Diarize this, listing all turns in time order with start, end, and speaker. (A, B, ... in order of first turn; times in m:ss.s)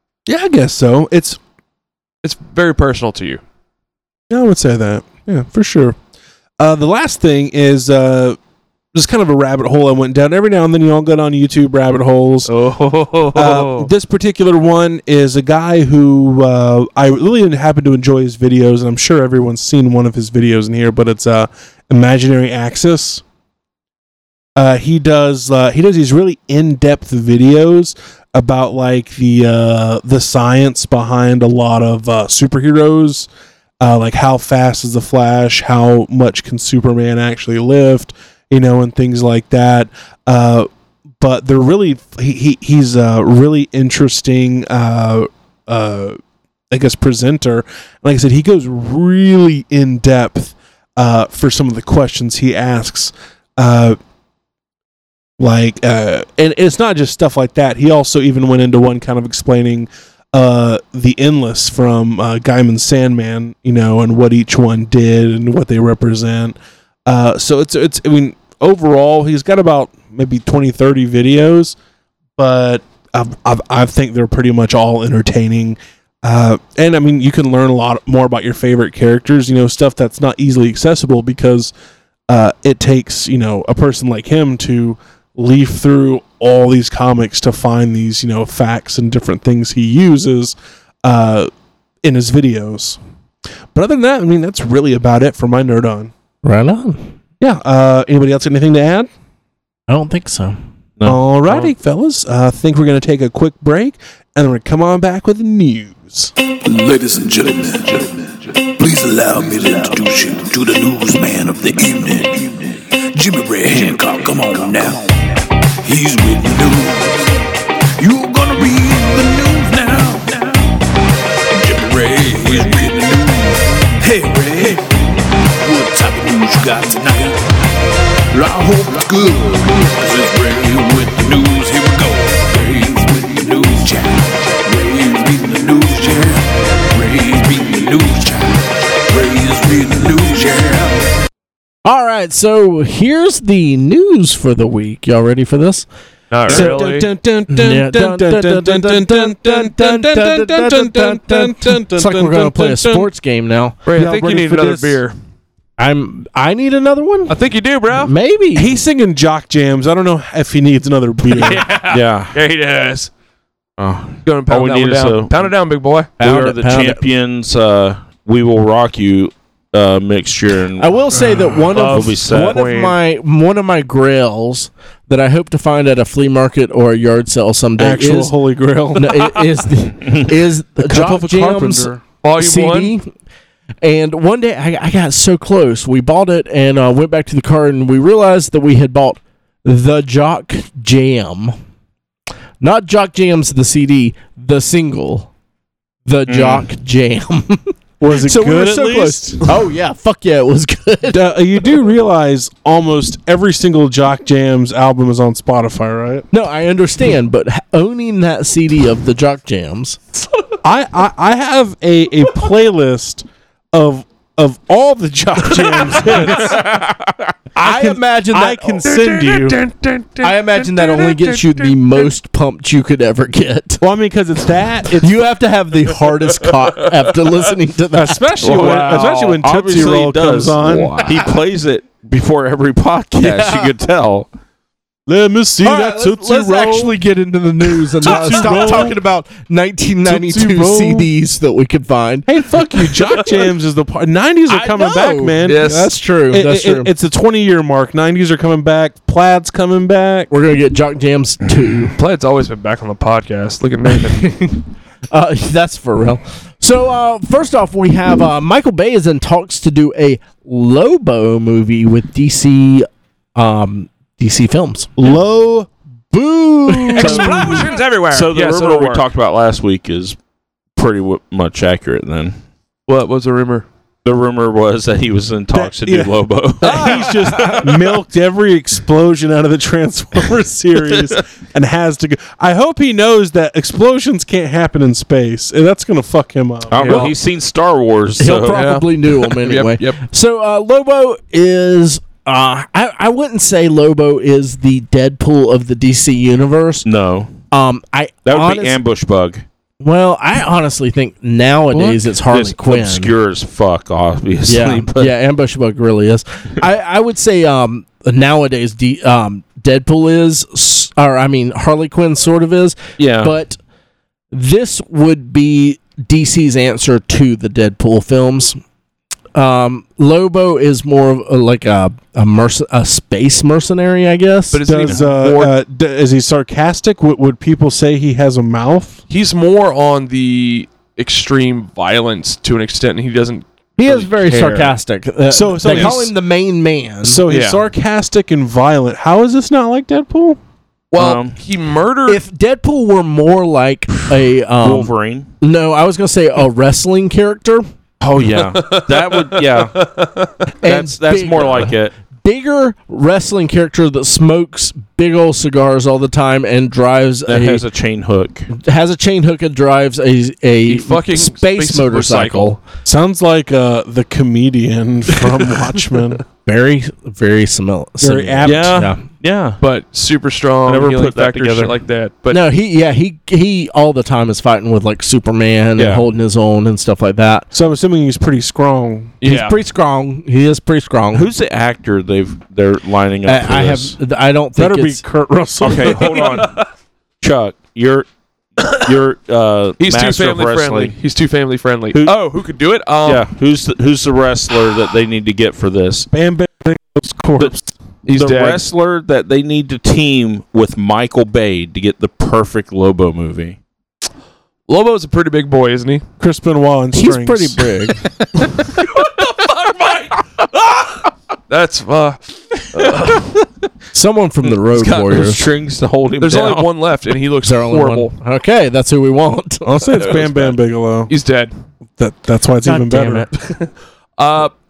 0:00.3-0:01.4 A
0:02.2-0:03.4 B
0:04.3-0:06.0 A
0:06.6-0:08.4 A
0:08.9-0:12.5 A
0:12.5-0:13.9 B
0:13.3-0:23.2 A
0:24.6-0:33.3 A
0:33.8-0:40.7 A
0:41.2-0:46.2 A
0:46.7-0:54.0 A
0:55.4-1:11.8 A
1:12.4-1:21.7 A
1:22.3-1:31.5 A
1:32.0-1:33.0 A
1:33.7-1:36.1 A
1:36.4-1:37.1 C
1:37.4-1:39.1 A
1:39.9-1:40.6 C
1:41.0-1:46.3 A
1:46.6-1:55.2 D
1:55.8-1:57.4 D
1:58.0-2:00.8 D
2:01.5-2:07.5 D
2:08.3-2:21.1 D
2:21.8-2:25.9 C
2:26.3-2:27.1 B
2:26.5-2:33.1 A
2:26.5-2:26.8 C
2:27.5-2:33.8 C
2:33.9-2:35.2 B
2:34.0-2:35.0 A
2:35.8-2:37.4 C
2:37.3-2:38.1 B
2:38.0-2:38.7 C
2:38.6-2:41.6 A
2:41.3-2:43.1 B
2:41.9-2:42.4 E
2:43.8-2:45.5 E
2:44.2-2:46.1 B
2:46.2-2:47.0 C
2:46.2-2:50.9 E
2:50.8-2:58.3 C
2:51.7-2:53.0 B
2:51.8-2:52.6 E
2:57.8-2:59.3 A
2:59.0-3:03.1 C
3:00.8-3:02.0 A
3:02.2-3:02.9 B
3:03.8-3:11.6 C
3:12.6-3:15.3 C
3:16.1-3:21.3 C
3:16.3-3:16.7 E
3:18.0-3:19.5 A
3:21.1-3:26.3 A
3:26.3-3:30.0 C
3:30.6-3:36.8 A
3:35.6-3:35.9 B
3:36.1-3:37.3 E
3:37.6-3:39.6 A
3:37.6-3:38.9 C
3:38.8-3:42.1 B
3:40.2-3:43.8 C
3:43.8-3:45.2 A
3:45.0-3:48.6 C
3:47.9-3:51.0 A
3:48.4-3:49.4 B
3:48.4-3:54.3 E
3:53.2-3:53.7 C
3:55.1-3:57.0 A
3:55.6-4:02.3 C
3:57.7-3:59.0 A
3:58.1-3:58.7 B
4:00.0-4:01.1 A
4:02.3-4:10.3 A
4:04.5-4:06.9 C
4:05.4-4:05.9 B
4:10.3-4:11.9 C
4:12.0-4:14.3 B
4:13.9-4:24.9 C
4:25.0-4:25.7 A
4:26.1-4:27.6 C
4:27.0-4:29.1 B
4:27.0-4:27.6 A
4:28.1-4:30.2 E
4:30.8-4:32.4 E
4:32.9-4:33.7 B
4:34.0-4:37.7 E
4:35.6-4:47.1 A
4:36.6-4:37.9 B
4:40.8-4:41.2 E
4:46.7-4:48.6 E
4:46.7-4:47.1 B
4:48.2-4:56.9 C
4:48.5-4:50.0 B
4:56.8-4:57.3 E
4:57.5-4:58.8 C
4:58.3-4:59.5 E
4:59.8-5:03.1 C
5:01.7-5:05.1 E
5:04.5-5:13.6 C
5:13.0-5:13.4 E
5:14.3-5:18.6 C
5:19.3-5:24.7 C
5:24.5-5:25.6 B
5:24.6-5:29.0 A
5:29.1-5:34.8 B
5:33.8-5:37.2 C
5:35.3-5:36.1 A
5:35.6-5:36.0 B
5:37.0-5:40.4 A
5:37.3-5:37.6 B
5:40.9-5:42.2 B
5:40.9-5:41.4 E
5:42.1-5:47.6 C
5:44.6-5:45.3 E
5:48.0-5:49.8 E
5:48.3-5:50.3 B
5:50.6-5:57.6 C
5:50.6-5:51.9 E
5:57.3-5:58.5 E
5:58.5-6:02.6 C
6:00.7-6:02.6 B
6:02.8-6:06.2 A
6:06.4-6:09.0 C
6:08.0-6:08.8 A
6:08.4-6:09.6 E
6:09.6-6:12.4 B
6:10.7-6:11.8 E
6:12.3-6:17.5 C
6:15.8-6:16.0 E
6:17.5-6:19.2 A
6:19.2-6:19.6 B
6:19.2-6:21.3 C
6:21.1-6:24.0 E
6:23.3-6:25.0 C
6:24.6-6:26.4 A
6:25.6-6:26.5 E
6:25.7-6:26.7 B
6:27.2-6:28.1 E
6:28.7-6:31.0 E
6:29.8-6:33.2 B
6:33.0-6:36.1 E
6:36.1-6:37.7 A
6:38.0-6:38.6 B
6:38.1-6:43.6 E
6:44.7-6:46.0 B
6:46.2-6:47.7 A
6:46.9-6:48.0 C
6:48.2-6:48.7 E
6:48.6-6:53.4 B
6:52.7-6:53.5 E
6:53.9-6:55.5 C
6:54.4-6:56.7 E
6:56.2-6:58.1 B
6:57.4-7:00.0 C
6:59.6-7:01.1 A
7:01.1-7:01.5 B
7:02.0-7:03.3 A
7:02.6-7:03.3 C
7:03.4-7:04.5 B